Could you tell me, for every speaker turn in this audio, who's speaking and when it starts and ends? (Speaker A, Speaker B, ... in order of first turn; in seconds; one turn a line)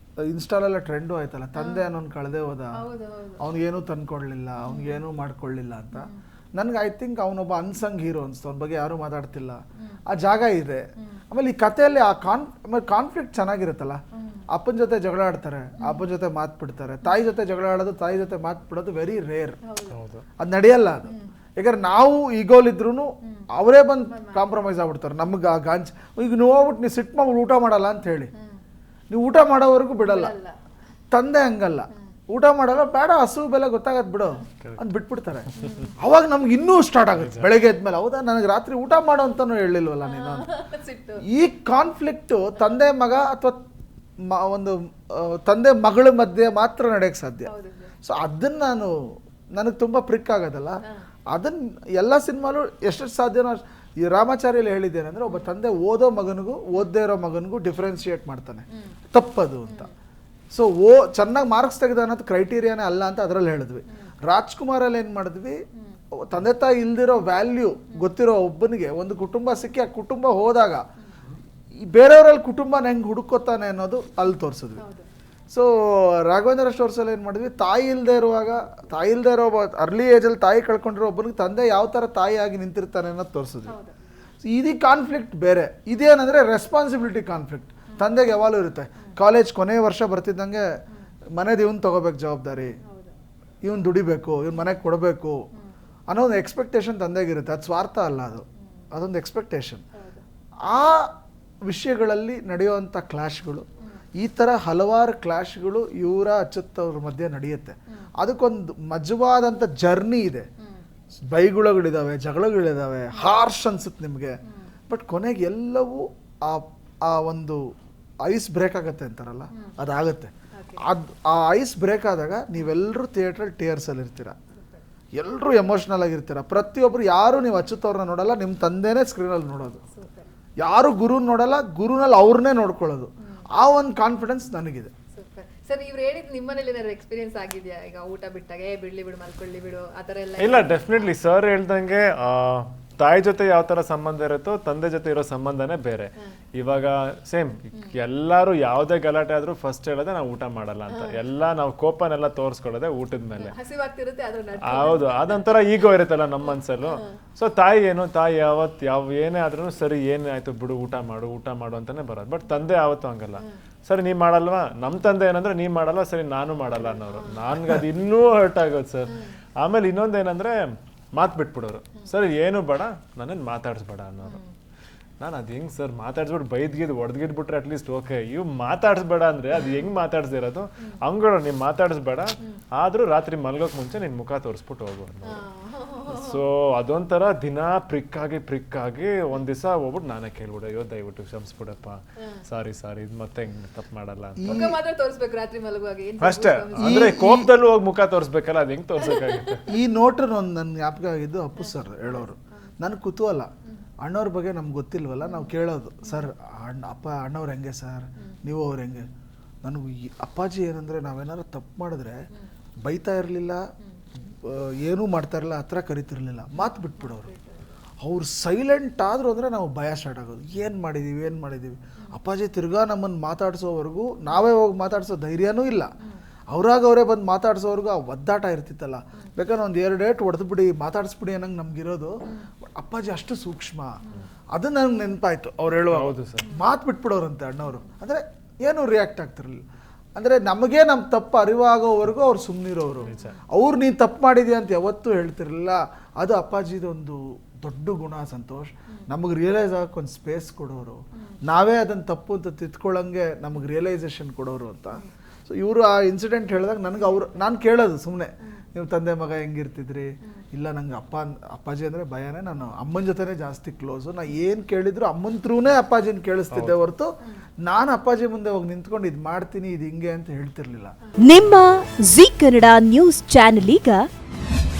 Speaker A: 0.2-2.9
Speaker B: 1.6-1.8
Speaker B: 2.8-3.4
Speaker A: 3.4-14.0
Speaker B: 4.6-5.0
Speaker B: 14.2-14.4
Speaker A: 14.5-19.6
Speaker B: 19.6-20.0
Speaker C: 19.9-20.2
Speaker A: 20.4-28.3
Speaker B: 24.1-24.4
Speaker A: 29.1-30.3
Speaker B: 30.0-30.5
Speaker A: 31.1-40.5
Speaker B: 35.6-35.9
Speaker C: 37.1-37.5
Speaker B: 40.0-41.2
Speaker A: 41.3-43.6
Speaker A: 44.2-47.5
Speaker B: 47.5-47.9
Speaker A: 48.0-49.0
Speaker A: 49.5-50.8
Speaker A: 51.3-59.9
Speaker A: 60.5-65.6
Speaker A: 66.2-70.8
Speaker A: 71.8-74.8
Speaker B: 74.8-75.0
Speaker A: 75.5-83.7
Speaker B: 83.7-83.9
Speaker A: 84.4-90.7
Speaker A: 91.3-92.8
Speaker B: 92.8-93.1
Speaker A: 93.6-95.4
Speaker A: 96.1-99.8
Speaker B: 99.9-100.2
Speaker A: 100.7-101.1
Speaker A: 101.7-110.5
Speaker A: 111.3-114.4
Speaker A: 114.9-117.6
Speaker A: 118.2-124.4
Speaker B: 120.5-120.8
Speaker B: 124.5-124.8
Speaker A: 125.1-129.8
Speaker B: 129.9-130.3
Speaker A: 130.6-134.9
Speaker B: 135.1-141.0
Speaker C: 140.4-153.5
Speaker B: 150.9-151.2
Speaker B: 153.3-155.4
Speaker C: 154.6-170.6
Speaker B: 156.4-157.2
Speaker B: 166.9-167.4
Speaker C: 171.1-174.4
Speaker B: 174.2-174.5
Speaker C: 175.2-185.4
Speaker B: 185.2-186.4
Speaker C: 186.1-194.6
Speaker B: 192.2-192.4
Speaker A: 194.4-194.8
Speaker B: 194.5-197.1
Speaker C: 196.2-199.6
Speaker A: 196.8-197.5
Speaker B: 199.1-199.6
Speaker A: 199.7-203.5
Speaker B: 201.6-202.3
Speaker A: 204.0-209.1
Speaker B: 205.2-205.5
Speaker A: 209.6-212.2
Speaker A: 212.8-213.6
Speaker A: 214.4-217.3
Speaker B: 216.6-217.8
Speaker A: 218.0-225.9
Speaker A: 226.5-232.1
Speaker A: 232.7-233.9
Speaker B: 234.0-234.3
Speaker A: 234.5-239.6
Speaker C: 235.9-236.5
Speaker A: 240.1-267.1
Speaker C: 243.0-243.4
Speaker B: 243.1-243.3
Speaker C: 266.5-266.8
Speaker A: 267.6-270.9
Speaker D: 271.2-274.1